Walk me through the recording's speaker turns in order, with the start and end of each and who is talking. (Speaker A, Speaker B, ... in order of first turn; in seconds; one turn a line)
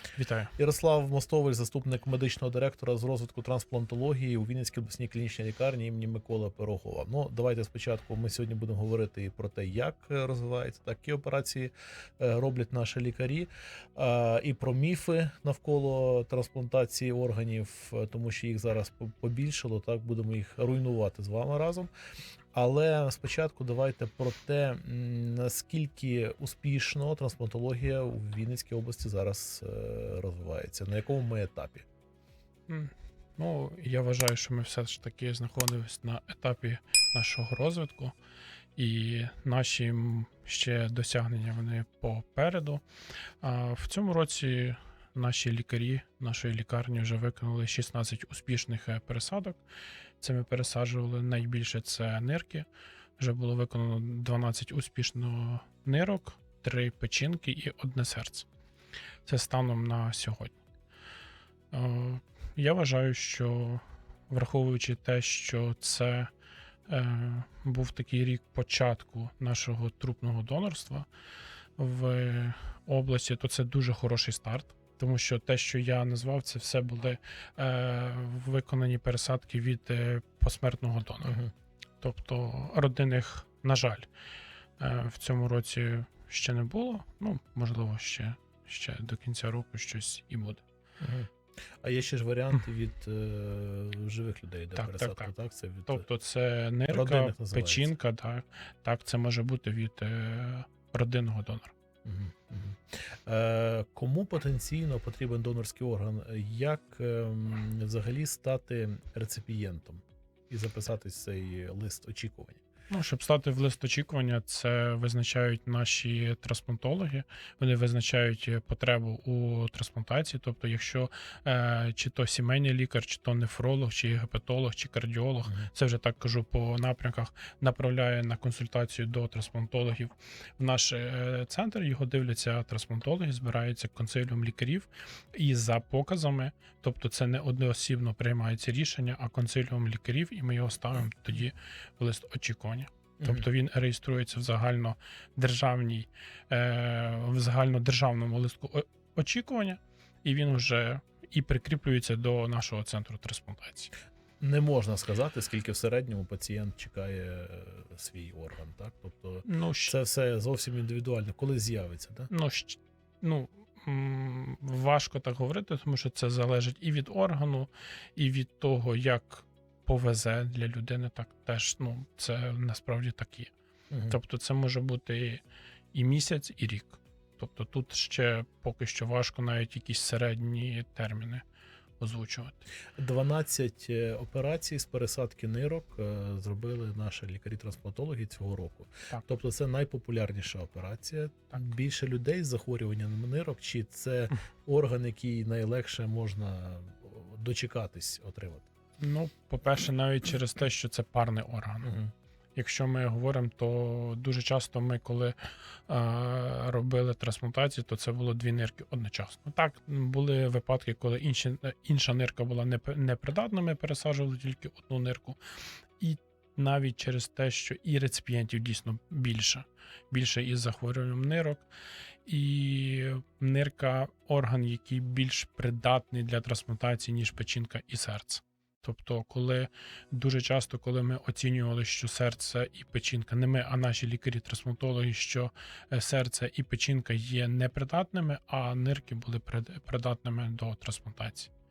Speaker A: 0.1-0.5
Speaker B: 0.6-21.9
Speaker B: 22.5-31.9
Speaker A: 32.7-38.1
Speaker A: 38.8-42.8
Speaker A: 43.4-49.6
Speaker A: 50.2-58.5
Speaker A: 59.2-60.6
Speaker A: 61.7-66.3
Speaker A: 66.9-71.1
Speaker A: 71.8-81.4
Speaker B: 81.2-81.5
Speaker A: 82.0-84.1
Speaker A: 84.8-90.6
Speaker B: 91.0-96.0
Speaker A: 94.8-95.3
Speaker A: 95.9-101.7
Speaker B: 96.9-97.9
Speaker B: 102.0-112.6
Speaker A: 112.9-153.9
Speaker B: 143.2-143.4
Speaker B: 154.4-162.3
Speaker A: 159.4-159.9
Speaker A: 162.3-173.5
Speaker B: 173.9-174.2
Speaker A: 174.1-175.4
Speaker A: 175.9-181.4
Speaker A: 182.0-182.7
Speaker B: 182.9-198.7
Speaker A: 199.0-201.9
Speaker B: 201.8-202.1
Speaker A: 202.6-215.4
Speaker A: 216.0-221.7
Speaker A: 222.2-241.5